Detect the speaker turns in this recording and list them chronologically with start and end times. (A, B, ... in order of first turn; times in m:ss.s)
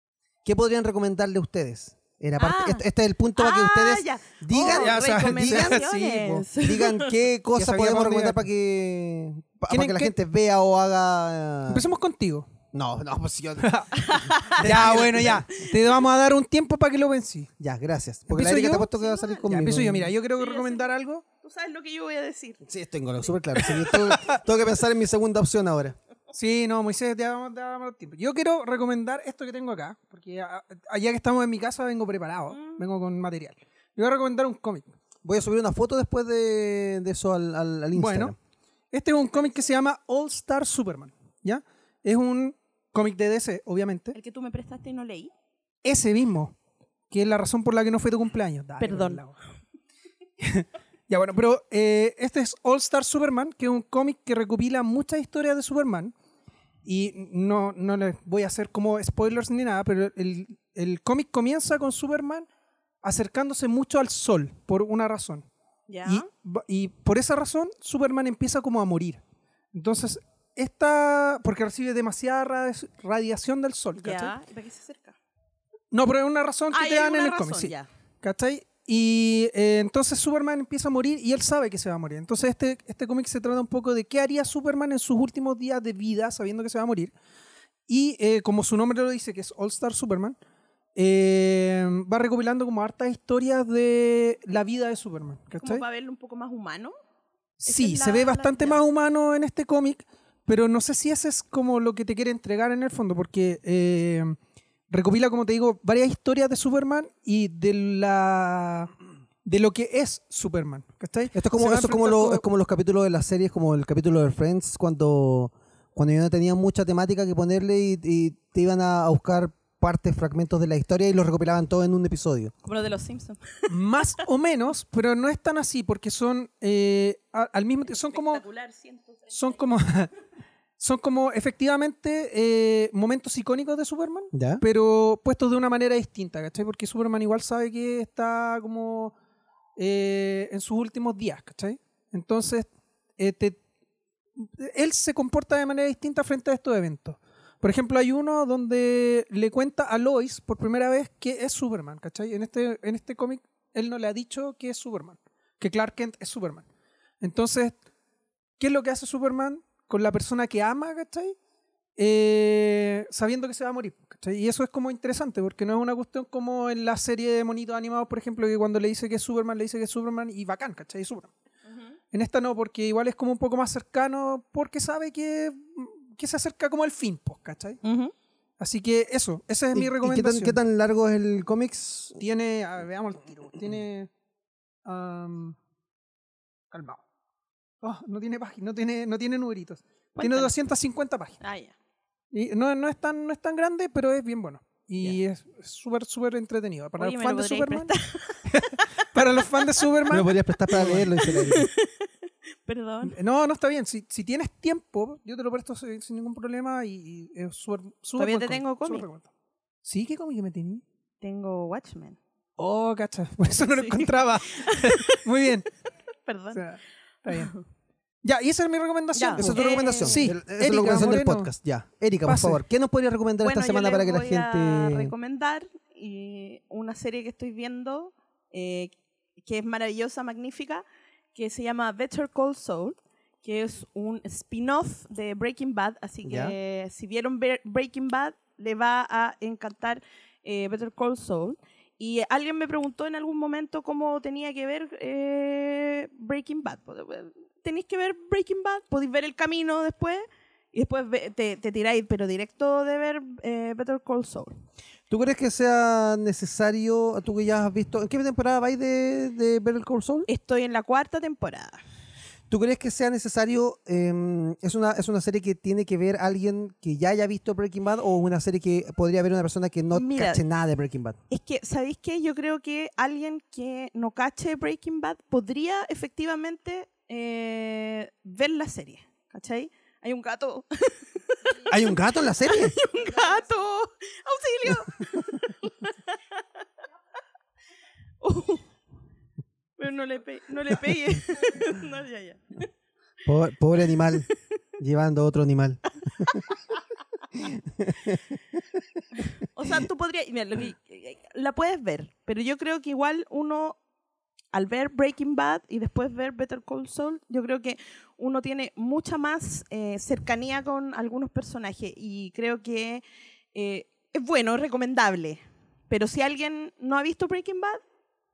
0:00.4-0:05.8 A
0:02.4-0:02.8 B
0:03.4-0:07.1 B
0:04.5-0:06.5 C
0:06.6-0:11.9 A
0:07.6-0:08.4 C
0:09.7-0:10.1 C
0:11.7-0:12.5 C
0:12.7-0:15.5 A
0:13.6-0:14.0 C
0:13.9-0:16.0 B
0:14.6-0:17.5 C
0:17.6-0:20.1 A
0:18.3-0:18.9 C
0:18.9-0:19.5 B
0:19.5-0:21.2 C
0:20.4-0:20.9 B
0:21.4-0:22.6 B
0:22.6-0:26.0 A
0:23.7-0:24.4 C
0:26.3-0:34.9 C
0:32.5-0:32.8 B
0:35.2-0:38.4 A
0:38.0-0:38.4 C
0:38.9-0:44.2 C
0:44.1-0:45.3 B
0:45.8-0:46.5 C
0:47.1-0:49.4 C
0:48.8-0:49.2 B
0:50.4-0:56.1 C
0:56.8-1:02.5 C
1:03.0-1:05.5 C
1:05.9-1:06.3 B
1:06.0-1:09.2 C
1:09.7-1:14.3 C
1:14.0-1:15.2 B
1:15.9-1:27.1 C
1:16.7-1:17.9 B
1:27.9-1:30.4 C
1:31.0-1:35.8 C
1:35.6-1:37.0 B
1:37.6-1:44.4 C
1:37.7-1:38.8 B
1:44.9-1:48.9 C
1:49.4-1:52.4 C
1:51.3-2:02.5 A
2:02.6-2:03.7 B
2:03.7-2:08.4 C
2:07.9-2:09.4 B
2:09.3-2:10.1 C
2:10.8-2:19.1 C
2:14.3-2:14.6 A
2:19.8-2:23.6 C
2:24.4-2:36.6 C
2:37.2-2:37.8 C
2:38.6-2:41.4 C
2:42.0-2:51.3 C
2:52.1-2:57.8 C
2:57.8-2:58.1 B
2:58.6-3:00.6 C
2:59.7-3:02.2 A
3:02.2-3:04.1 C
3:04.8-3:05.6 C
3:06.7-3:07.0 C
3:07.8-3:11.4 C
3:10.2-3:10.5 B
3:11.4-3:11.8 B
3:12.3-3:17.9 C
3:17.0-3:18.8 B
3:18.5-3:21.2 C
3:20.1-3:21.7 A
3:21.2-3:22.1 B
3:22.6-3:23.2 B
3:23.0-3:29.3 C
3:28.2-3:29.1 B
3:29.8-3:30.8 C
3:31.2-3:32.2 B
3:32.6-3:35.7 C
3:33.7-3:35.2 B
3:36.3-3:36.6 B
3:36.5-3:37.5 C
3:37.3-3:37.6 B
3:38.2-3:41.5 C
3:39.2-3:40.2 B
3:39.4-3:45.1 A
3:42.2-3:42.6 C
3:43.4-4:14.5 B
3:56.2-3:56.6 A
4:15.1-4:20.3 A
4:20.3-4:21.8 B
4:22.5-4:31.2 A
4:29.9-4:30.4 B
4:31.3-4:41.7 B
4:41.7-4:42.8 A
4:42.4-4:46.4 B
4:48.2-4:48.7 B
4:49.8-4:52.7 B
4:53.2-4:56.4 A
4:57.3-4:58.2 A
4:59.2-5:03.8 B
5:04.5-5:13.0 B
5:13.5-5:17.8 B